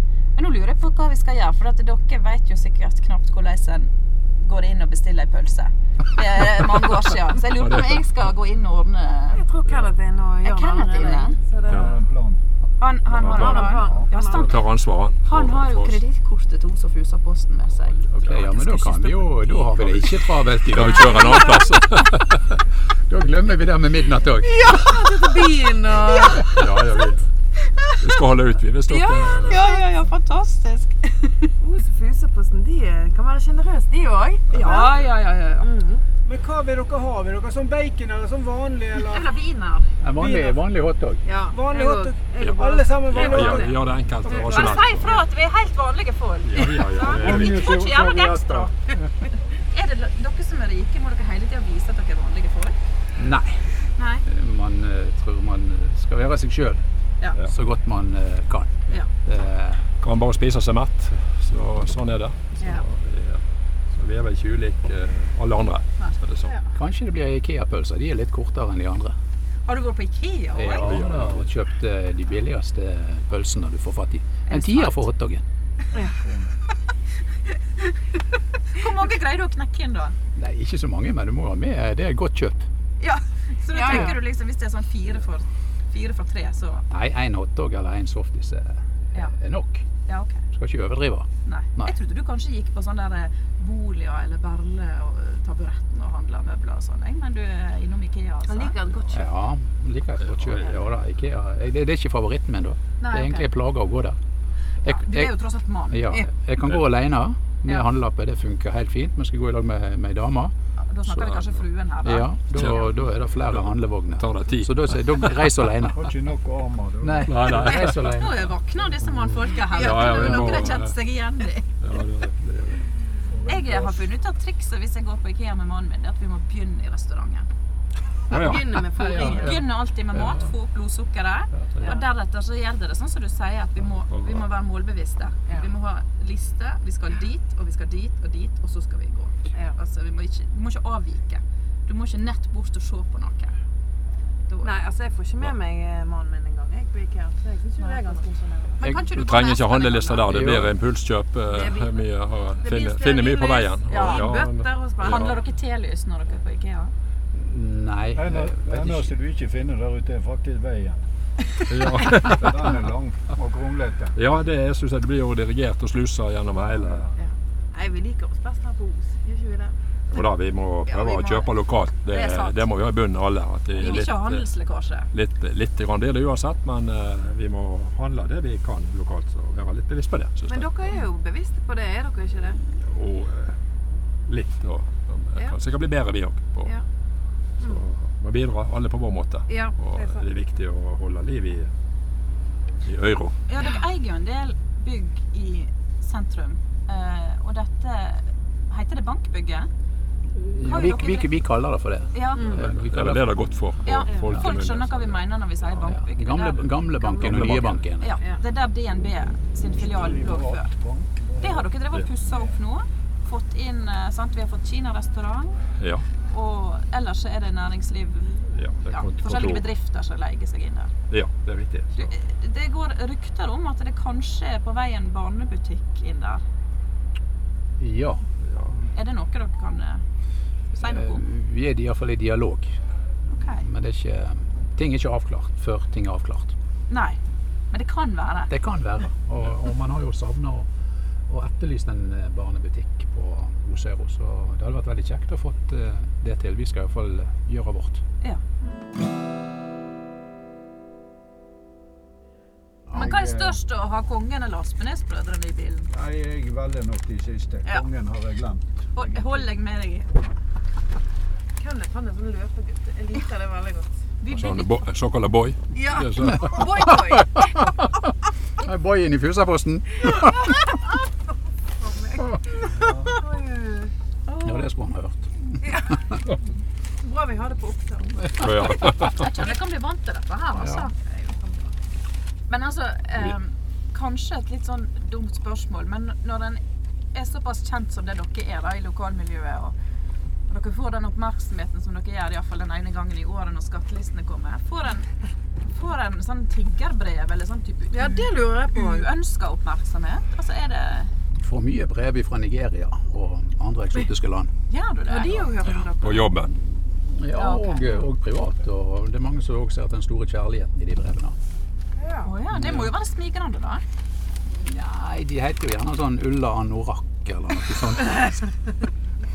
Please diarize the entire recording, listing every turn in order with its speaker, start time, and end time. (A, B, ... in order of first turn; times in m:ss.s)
0:00.4-0:09.4 A
0:07.6-0:08.1 B
0:09.3-0:12.0 C
0:10.4-0:11.4 A
0:11.7-0:12.4 D
0:12.8-0:14.6 A
0:13.1-0:16.0 B
0:13.2-0:14.5 C
0:13.8-0:14.1 D
0:15.2-0:19.6 A
0:18.0-0:18.5 B
0:18.2-0:21.4 E
0:19.6-0:22.6 B
0:21.0-0:21.7 A
0:23.1-0:25.2 E
0:24.4-0:26.7 C
0:26.1-0:27.3 B
0:28.0-0:29.6 B
0:28.9-0:29.8 C
0:29.2-0:31.5 A
0:31.6-0:34.9 C
0:34.5-0:35.7 A
0:34.6-0:34.9 B
0:35.6-0:36.0 C
0:36.2-0:39.3 D
0:39.0-0:39.9 A
0:40.0-0:41.2 E
0:40.2-0:40.6 D
0:41.3-0:45.0 C
0:41.5-0:43.8 D
0:42.4-0:45.2 B
0:44.2-0:48.7 A
0:46.4-0:47.7 B
0:46.6-0:48.7 D
0:49.6-0:52.8 A
0:53.2-0:53.7 E
0:54.0-0:54.2 A
0:54.2-0:56.8 E
0:57.5-0:59.9 E
1:00.0-1:03.4 B
1:03.9-1:06.5 B
1:06.7-1:09.2 E
1:09.7-1:11.0 A
1:10.5-1:15.4 E
1:10.8-1:11.5 B
1:14.5-1:15.1 A
1:15.9-1:16.5 D
1:18.7-1:20.2 A
1:20.4-1:22.7 E
1:23.0-1:26.9 A
1:23.7-1:24.2 C
1:26.9-1:29.8 E
1:30.1-1:30.4 A
1:30.5-1:32.0 E
1:31.4-1:38.8 A
1:38.5-1:39.3 C
1:39.1-1:44.2 E
1:40.3-1:40.7 B
1:43.0-1:43.5 A
1:44.8-1:50.5 E
1:44.9-1:46.3 A
1:50.8-1:52.4 A
1:51.1-1:51.5 E
1:52.0-1:56.2 E
1:52.5-1:53.0 B
1:54.2-1:55.6 B
1:56.0-1:57.6 D
1:57.0-1:58.5 E
1:57.2-1:58.2 B
1:57.7-2:01.7 A
1:59.0-1:59.4 E
1:59.7-2:00.6 C
1:59.7-2:01.0 B
2:00.1-2:00.6 E
2:01.8-2:02.8 B
2:03.3-2:04.0 D
2:03.5-2:07.5 A
2:08.3-2:08.7 B
2:08.3-2:09.6 C
2:08.9-2:10.4 E
2:09.0-2:23.6 A
2:11.8-2:12.1 C
2:14.1-2:14.4 B
2:24.6-2:28.8 C
2:27.8-2:28.2 A
2:28.8-2:30.3 A
2:29.1-2:35.4 B
2:30.3-2:30.8 E
2:31.5-2:32.0 C
2:32.6-2:35.4 C
2:33.9-2:34.4 A
2:35.0-2:36.9 A
2:37.4-2:39.1 E
2:38.1-2:41.0 D
2:41.7-2:42.8 B
2:42.1-2:44.2 D
2:44.2-2:47.1 B
2:47.2-2:49.8 C
2:50.1-2:54.4 B
2:50.9-2:51.5 A
2:52.1-2:52.6 A
2:53.8-2:55.1 A
2:55.1-3:00.7 B
3:00.5-3:02.6 C
3:02.8-3:03.6 B
3:04.3-3:06.7 B
3:07.6-3:11.7 B
3:09.5-3:10.2 C
3:12.8-3:13.4 B
3:13.5-3:19.7 A
3:20.4-3:23.4 E
3:20.6-3:21.3 A
3:22.1-3:22.6 A
3:22.3-3:22.6 C
3:22.5-3:25.2 B
3:23.8-3:30.7 A
3:24.2-3:24.5 E
3:25.8-3:28.2 E
3:27.2-3:27.8 B
3:29.8-3:31.7 D
3:31.4-3:35.6 A
3:35.8-3:36.0 B
3:36.2-3:40.9 A
3:38.5-3:39.6 B
3:41.1-3:42.1 B
3:42.0-3:46.4 A
3:47.8-3:48.2 E
3:48.5-3:48.8 B
3:48.9-3:50.0 A
3:50.7-3:51.2 A
3:50.8-3:52.8 E
3:53.3-3:53.6 A
3:53.6-3:56.5 E
3:56.9-3:57.2 A
3:57.7-3:58.5 A
3:58.5-4:00.7 E
4:01.3-4:08.0 E
4:12.9-4:13.6 D
4:12.9-4:15.9 A
4:15.9-4:19.3 D
4:18.9-4:20.1 A
4:21.6-4:23.9 C
4:24.2-4:24.8 A
4:24.3-4:26.8 B
4:25.7-4:27.5 C
4:26.2-4:27.9 E
4:28.6-4:30.6 E
4:31.8-4:33.9 C
4:32.8-4:33.2 D
4:34.3-4:34.7 A
4:34.4-4:35.6 E
4:35.6-4:36.2 C
4:37.0-4:38.4 C
4:38.3-4:39.3 B
4:39.0-4:40.9 A
4:40.6-4:40.9 E
4:41.0-4:41.7 C
4:42.5-4:46.6 A
4:47.1-4:49.8 A
4:50.5-4:55.1 A
4:55.7-5:01.1 A
4:57.9-4:59.1 C
5:01.4-5:04.5 E
5:04.7-5:05.4 A
5:05.1-5:06.3 C
5:06.0-5:06.5 B
5:06.6-5:11.4 E
5:07.3-5:08.0 A
5:12.0-5:12.3 C
5:12.2-5:13.8 A
5:12.5-5:12.9 E
5:14.5-5:18.3 E